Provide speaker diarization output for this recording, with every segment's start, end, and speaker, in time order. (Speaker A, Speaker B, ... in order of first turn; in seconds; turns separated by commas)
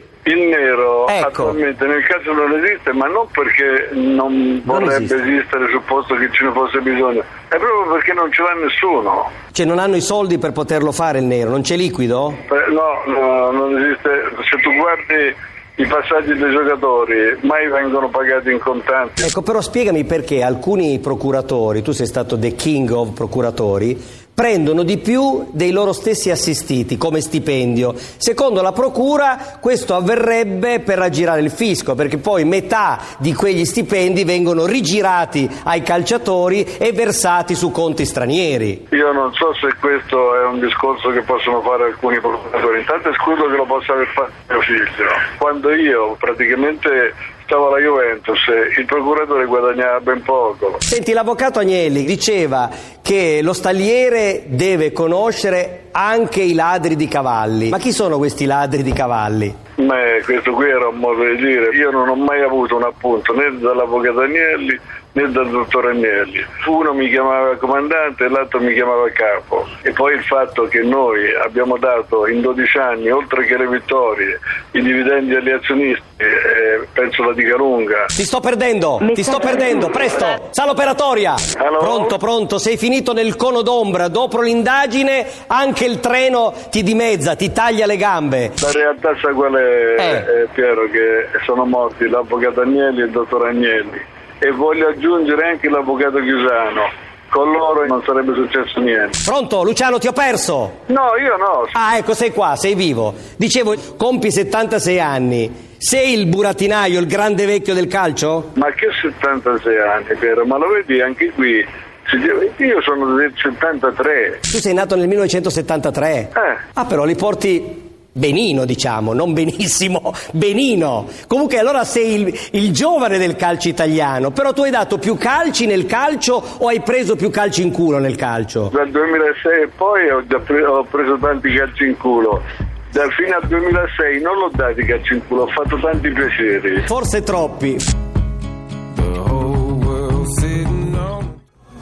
Speaker A: 0.2-9.3, Speaker B: 1.1-1.6, Speaker B: 4.7-5.1, Speaker B: 9.5-12.4, Speaker A: 12.5-19.3, Speaker B: 19.2-38.8, Speaker A: 38.9-50.8, Speaker B: 50.9-59.5, Speaker A: 59.8-78.1, Speaker B: 78.1-88.6, Speaker A: 81.6-82.2, Speaker A: 88.6-99.2, Speaker B: 90.0-90.3, Speaker B: 99.2-100.8, Speaker A: 100.9-101.7, Speaker B: 101.7-108.5, Speaker A: 108.5-114.4, Speaker B: 114.5-128.7, Speaker A: 128.7-136.8, Speaker B: 136.9-137.8